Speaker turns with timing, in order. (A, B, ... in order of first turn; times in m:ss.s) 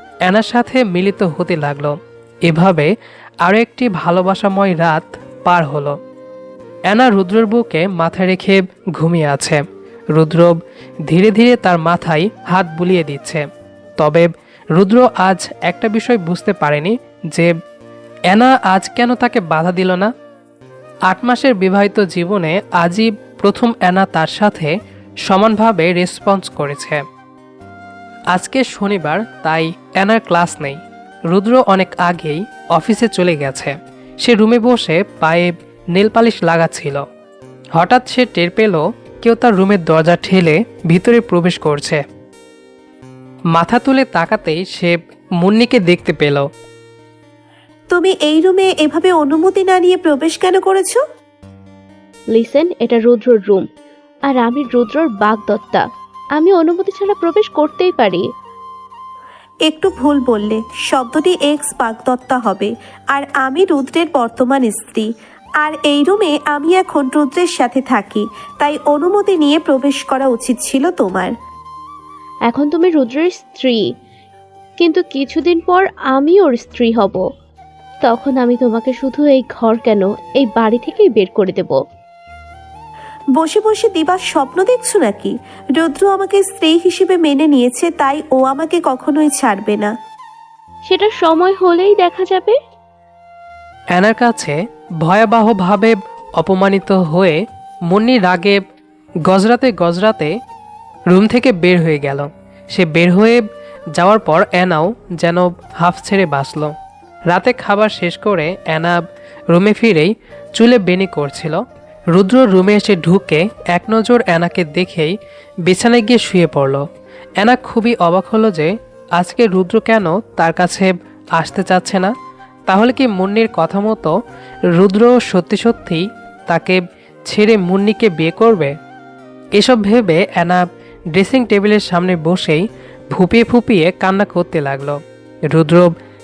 0:00.2-0:06.0 A
0:06.9-0:13.5 A
0:14.0-0:17.5 A
0:18.3-0:20.1 A
0:21.1-0:27.0 A
0:28.3-0:37.0 A
0:37.8-0:42.0 A
0:43.5-0:46.5 A
0:47.9-0:51.0 B
0:52.3-0:53.7 C
0:54.2-0:58.3 C
0:59.6-1:11.3 B
1:12.5-1:13.9 C
1:14.8-1:17.2 C
1:18.0-1:21.8 C
1:23.4-1:29.9 B
1:30.9-1:32.6 C
1:33.9-1:38.6 A
1:39.2-1:40.4 A
1:41.1-1:46.7 A
1:47.3-1:56.9 A
1:57.4-2:02.1 A
2:02.7-2:04.2 A
2:04.7-2:08.8 A
2:09.5-2:15.0 A
2:15.5-2:15.9 A